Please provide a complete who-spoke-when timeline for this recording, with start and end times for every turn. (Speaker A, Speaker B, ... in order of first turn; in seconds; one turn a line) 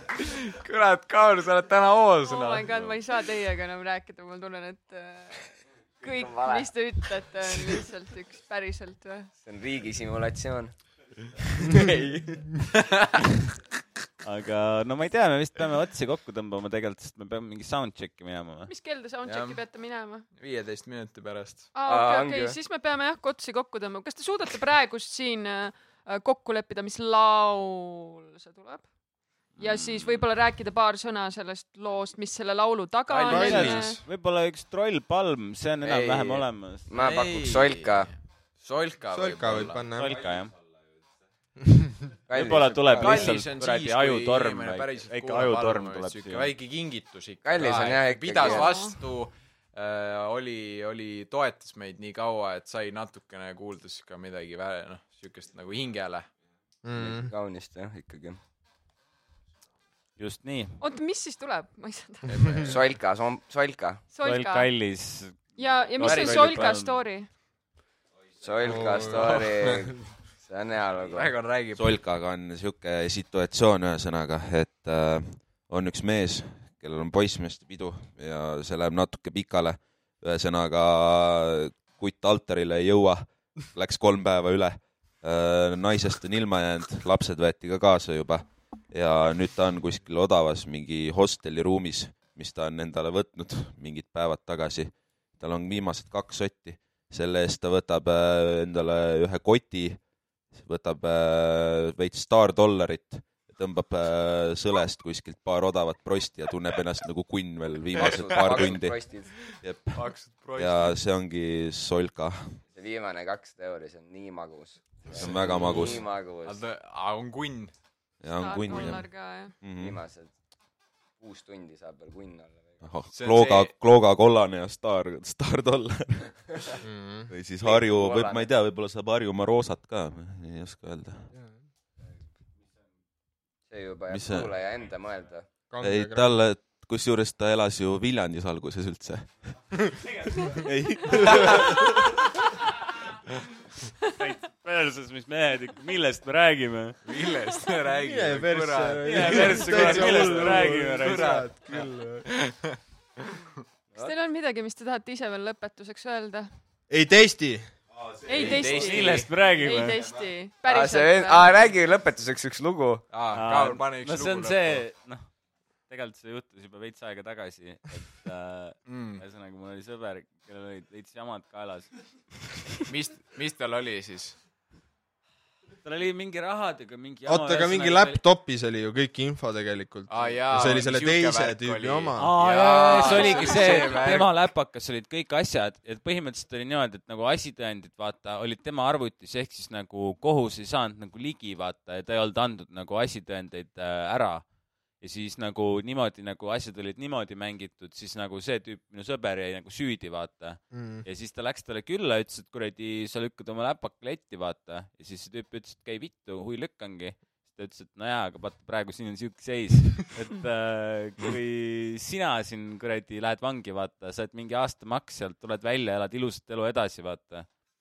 Speaker A: 0.2-3.0
Speaker B: 2.2-9.3
Speaker C: 6.0-6.7
Speaker C: 9.4-10.7
Speaker C: 11.4-12.6
Speaker A: 12.7-13.2
Speaker D: 14.2-18.7
Speaker B: 18.7-20.3
Speaker A: 19.2-19.6
Speaker A: 20.4-21.7
Speaker B: 21.7-28.9
Speaker C: 21.8-22.6
Speaker B: 29.6-34.0
Speaker E: 33.1-34.0
Speaker D: 33.3-36.9
Speaker A: 35.9-39.9
Speaker C: 36.9-38.1
Speaker E: 39.1-40.2
Speaker D: 39.9-40.5
Speaker E: 41.6-41.9
Speaker C: 42.3-43.4
Speaker D: 42.3-46.5
Speaker A: 43.0-56.3
Speaker C: 47.4-48.9
Speaker B: 48.4-49.0
Speaker E: 56.8-57.3
Speaker C: 56.9-58.4
Speaker D: 60.2-60.8
Speaker B: 60.8-62.4
Speaker A: 62.3-62.8
Speaker C: 62.6-64.0
Speaker B: 64.1-64.7
Speaker D: 64.2-67.0
Speaker B: 65.6-67.3
Speaker A: 66.0-66.6
Speaker C: 68.4-71.4
Speaker E: 68.6-69.7
Speaker A: 69.2-69.5
Speaker A: 71.1-71.8
Speaker F: 71.7-112.6
Speaker C: 108.0-109.3
Speaker A: 108.1-108.4
Speaker A: 109.3-111.0
Speaker C: 112.7-116.6
Speaker F: 115.1-116.1
Speaker A: 115.5-117.7
Speaker F: 118.2-120.0
Speaker B: 118.3-119.5
Speaker C: 119.8-120.3
Speaker C: 121.2-122.8
Speaker F: 122.8-131.3
Speaker A: 123.1-123.7
Speaker E: 126.8-127.3
Speaker C: 127.6-128.5
Speaker E: 131.3-131.6
Speaker C: 133.7-135.5
Speaker F: 134.1-134.5
Speaker E: 135.7-136.3
Speaker F: 135.8-139.8
Speaker F: 140.5-142.0
Speaker D: 144.1-147.0
Speaker A: 147.0-153.5
Speaker E: 148.0-152.3
Speaker D: 149.0-151.5
Speaker B: 154.0-156.5
Speaker E: 156.9-157.7
Speaker F: 158.0-158.7
Speaker B: 158.3-161.5
Speaker A: 158.3-159.3
Speaker D: 158.4-160.0
Speaker C: 160.7-163.1
Speaker A: 163.1-164.8
Speaker D: 163.3-165.3
Speaker D: 165.9-171.9
Speaker A: 168.9-169.2
Speaker A: 172.9-174.4
Speaker D: 175.8-178.2
Speaker E: 177.3-182.3
Speaker A: 180.1-184.3
Speaker D: 182.2-194.4
Speaker B: 183.0-183.9
Speaker D: 195.0-217.5
Speaker E: 200.7-201.1